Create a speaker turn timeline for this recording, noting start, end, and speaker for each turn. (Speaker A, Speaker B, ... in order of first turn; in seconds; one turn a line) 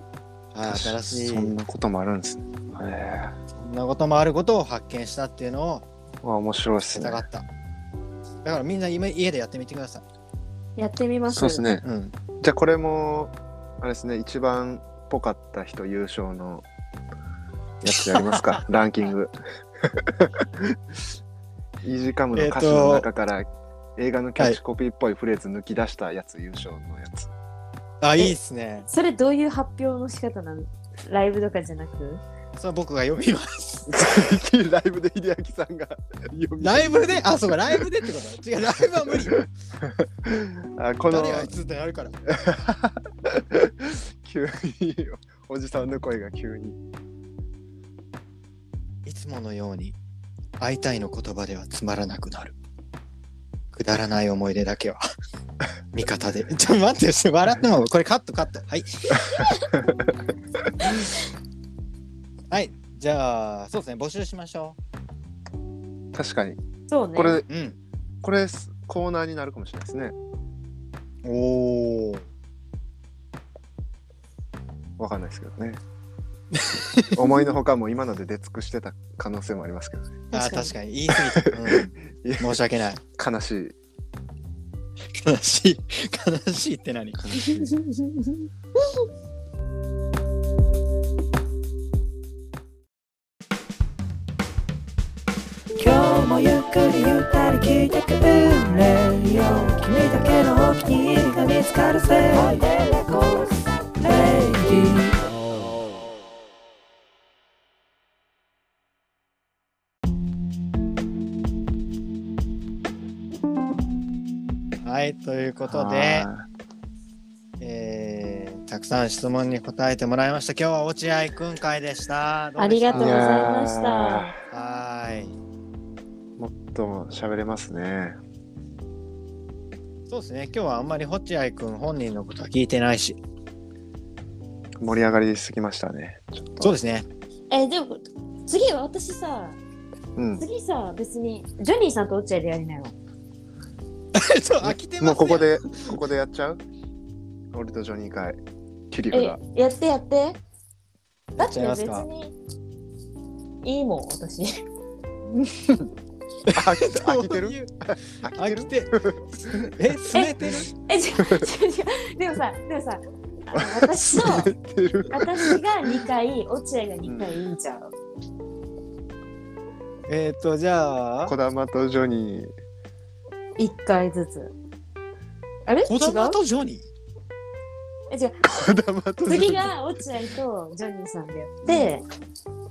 Speaker A: 0.5-1.5
Speaker B: 0.7-3.4
Speaker A: 3.6-5.9
Speaker B: 6.2-7.2
Speaker A: 6.9-7.5
Speaker A: 8.4-10.0
Speaker C: 10.8-11.7
Speaker B: 11.3-11.9
Speaker A: 11.8-12.1
Speaker B: 12.4-16.6
Speaker B: 17.8-20.8
Speaker A: 17.9-18.6
Speaker B: 21.8-27.3
Speaker A: 22.4-23.1
Speaker A: 28.0-28.9
Speaker C: 28.9-32.2
Speaker A: 32.6-34.0
Speaker B: 33.9-37.9
Speaker A: 36.6-39.5
Speaker B: 39.1-41.5
Speaker A: 41.1-42.2
Speaker B: 42.3-46.8
Speaker A: 49.1-50.0
Speaker A: 50.6-52.5
Speaker A: 53.7-55.0
Speaker A: 55.9-59.5
Speaker B: 59.2-60.9
Speaker A: 62.5-64.8
Speaker B: 66.1-66.6
Speaker C: 66.9-67.4
Speaker B: 67.2-67.5
Speaker A: 67.5-67.8
Speaker B: 68.2-70.2
Speaker A: 71.2-72.2
Speaker B: 75.0-75.8
Speaker A: 76.5-77.2
Speaker B: 77.1-80.2
Speaker C: 80.3-80.7
Speaker A: 80.3-83.0
Speaker B: 81.1-82.6
Speaker B: 83.2-83.8
Speaker A: 85.1-87.2
Speaker B: 87.1-87.7
Speaker C: 87.4-88.5
Speaker D: 95.8-105.2
Speaker A: 114.8-116.3
Speaker B: 115.6-116.5
Speaker A: 117.6-123.4
Speaker C: 122.6-124.3
Speaker B: 122.9-124.3
Speaker A: 124.5-125.4
Speaker B: 126.4-128.2
Speaker A: 130.1-133.2
Speaker B: 134.8-136.8
Speaker A: 136.6-137.1
Speaker C: 137.5-139.6
Speaker B: 140.2-140.4
Speaker C: 140.4-142.9
Speaker A: 144.2-145.9
Speaker B: 144.6-146.6
Speaker B: 147.5-148.4
Speaker B: 148.9-149.4
Speaker C: 149.1-150.4
Speaker A: 151.3-152.1
Speaker C: 151.4-152.3
Speaker C: 153.6-154.6
Speaker A: 156.5-157.7
Speaker B: 156.5-159.7
Speaker A: 158.2-158.9
Speaker A: 159.5-160.7
Speaker C: 160.1-164.5
Speaker B: 163.5-165.6
Speaker C: 165.1-167.9
Speaker B: 167.1-167.4
Speaker A: 170.1-171.3
Speaker B: 171.2-172.5
Speaker C: 173.6-174.6
Speaker C: 175.7-176.4
Speaker A: 175.9-176.8
Speaker C: 178.1-178.4
Speaker B: 178.4-179.7
Speaker C: 179.2-182.1
Speaker B: 181.7-182.0